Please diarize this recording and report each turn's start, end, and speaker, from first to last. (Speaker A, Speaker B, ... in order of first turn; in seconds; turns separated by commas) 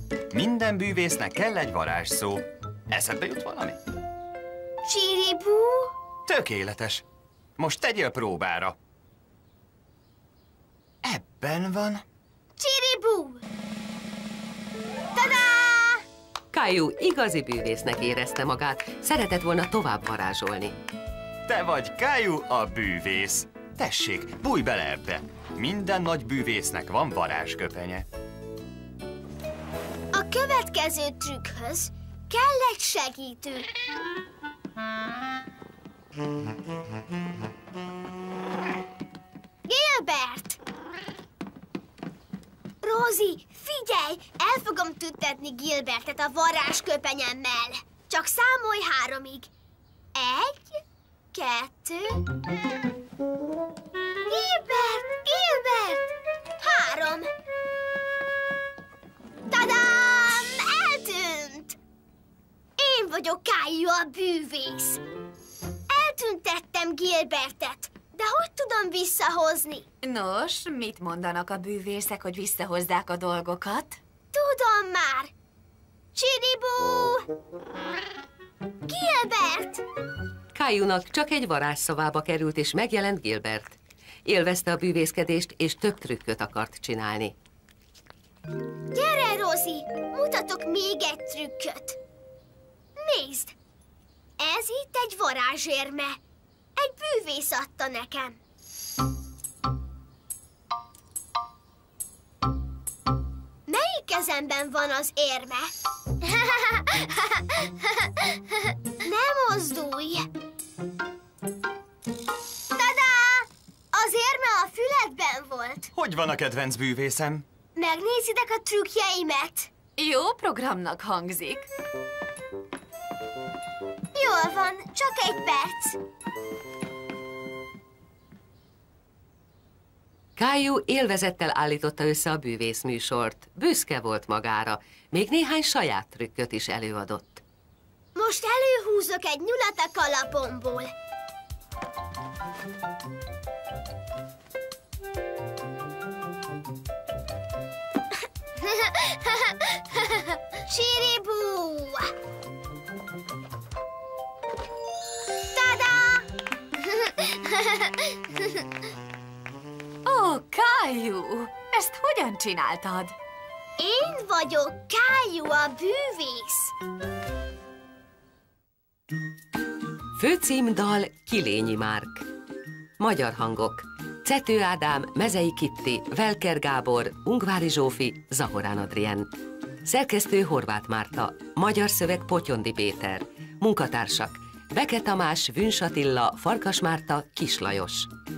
Speaker A: 0.3-3.8, Speaker B: 4.8-5.9, Speaker A: 6.3-7.0, Speaker A: 7.6-8.8, Speaker A: 11.0-12.0, Speaker B: 12.6-13.4, Speaker B: 15.1-16.0, Speaker C: 16.5-20.8, Speaker A: 21.4-28.1, Speaker B: 30.1-33.7, Speaker B: 39.6-40.6, Speaker B: 42.8-49.5, Speaker B: 50.1-50.8, Speaker B: 51.3-52.5, Speaker B: 54.3-57.3, Speaker B: 59.5-61.8, Speaker B: 62.8-65.0, Speaker B: 65.9-69.9, Speaker D: 70.0-74.0, Speaker B: 74.3-75.3, Speaker B: 76.1-77.3, Speaker B: 78.9-79.8, Speaker C: 80.5-87.4, Speaker B: 88.9-92.0, Speaker B: 93.0-93.5, Speaker B: 94.4-96.2, Speaker B: 96.8-98.4, Speaker B: 103.7-107.6, Speaker B: 109.0-110.3, Speaker B: 112.8-115.9, Speaker A: 115.9-117.5, Speaker B: 117.8-119.7, Speaker D: 120.0-121.7, Speaker B: 124.1-126.0, Speaker C: 130.4-137.4, Speaker B: 138.1-140.9, Speaker B: 148.6-149.7, Speaker B: 150.6-152.1, Speaker B: 155.5-158.6, Speaker D: 160.1-163.1, Speaker B: 163.8-166.7, Speaker C: 170.2-172.3, Speaker C: 173.0-179.3, Speaker C: 179.8-188.1